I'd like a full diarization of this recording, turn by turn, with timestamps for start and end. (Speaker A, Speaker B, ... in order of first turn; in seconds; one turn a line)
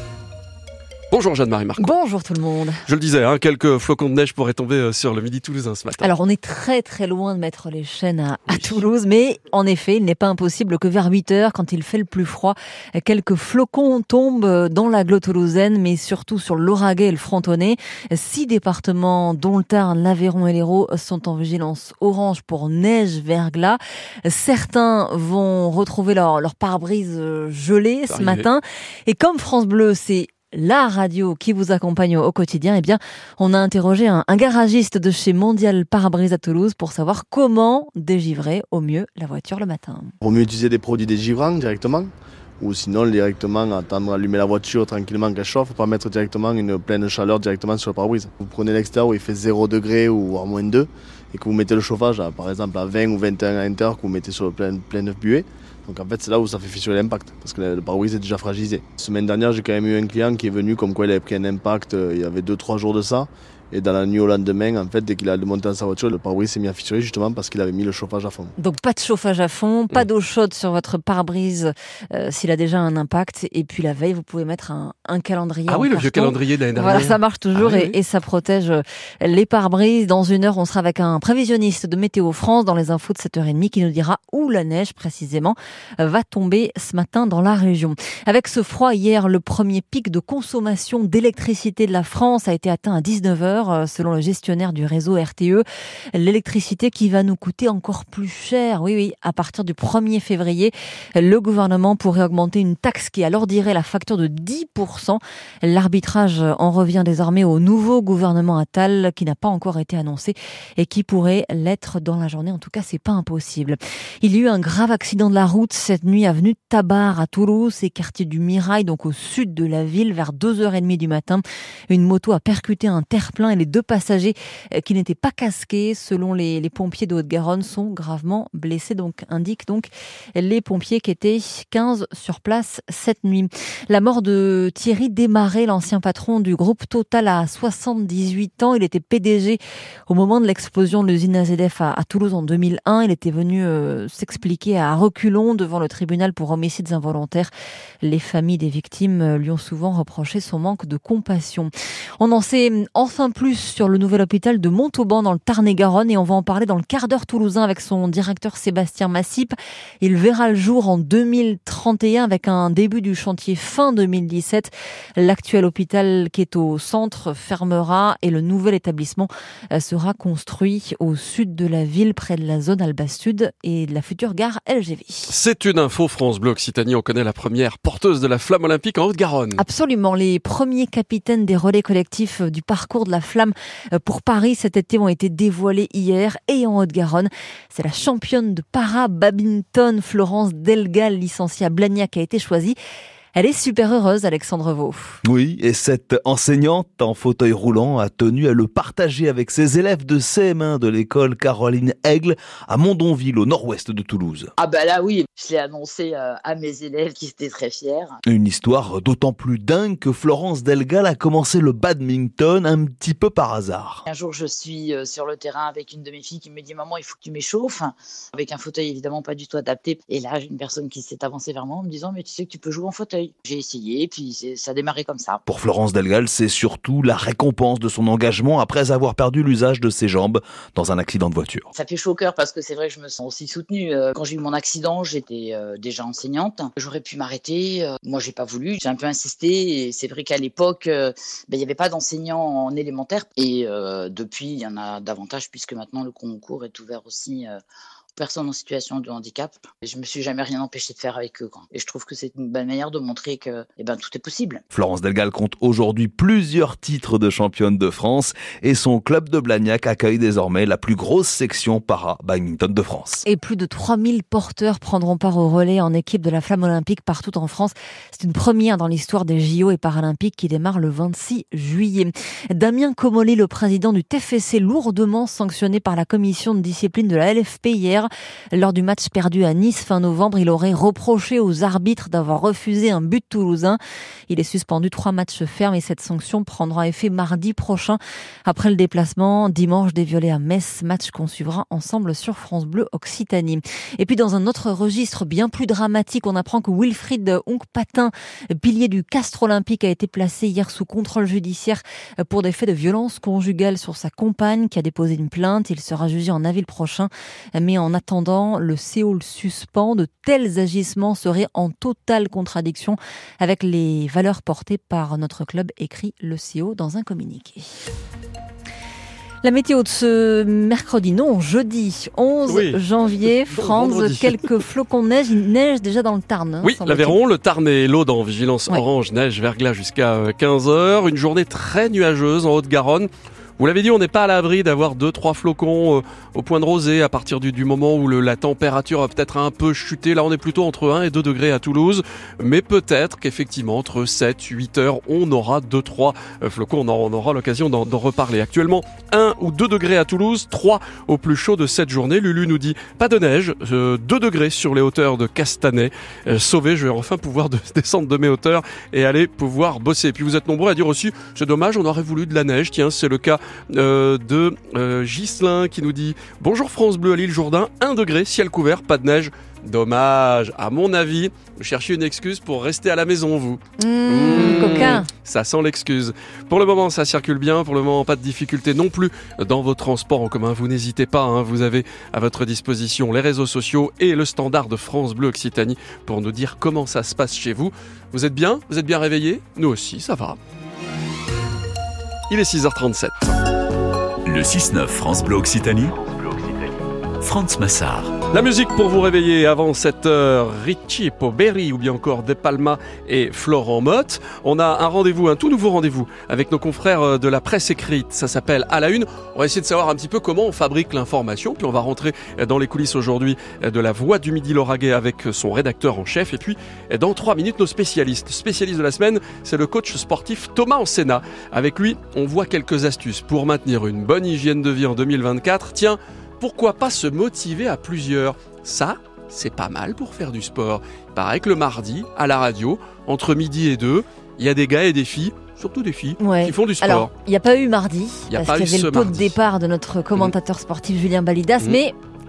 Speaker A: 1.1-2.0
Speaker B: 1.8-2.9
Speaker A: 2.8-6.1
Speaker B: 6.0-40.1
Speaker A: 8.5-8.8
Speaker A: 28.1-28.5
Speaker C: 40.2-68.5
Speaker B: 68.6-147.5
Speaker A: 75.7-78.0
Speaker B: 148.0-175.3
Speaker A: 175.3-179.6
Speaker B: 179.6-192.8
Speaker B: 193.3-195.2
Speaker D: 195.2-204.5
Speaker E: 204.6-208.2
Speaker D: 208.3-214.0
Speaker E: 214.1-225.4
Speaker D: 225.5-231.7
Speaker E: 231.7-247.6
Speaker E: 248.2-254.6
Speaker D: 254.7-263.2
Speaker B: 263.2-317.7
Speaker B: 319.4-327.2
Speaker A: 322.5-324.5
Speaker A: 326.6-390.4
Speaker B: 373.8-375.1
Speaker A: 392.3-393.4
Speaker F: 394.2-398.1
Speaker A: 398.3-437.1
Speaker B: 436.2-442.0
Speaker A: 438.3-439.4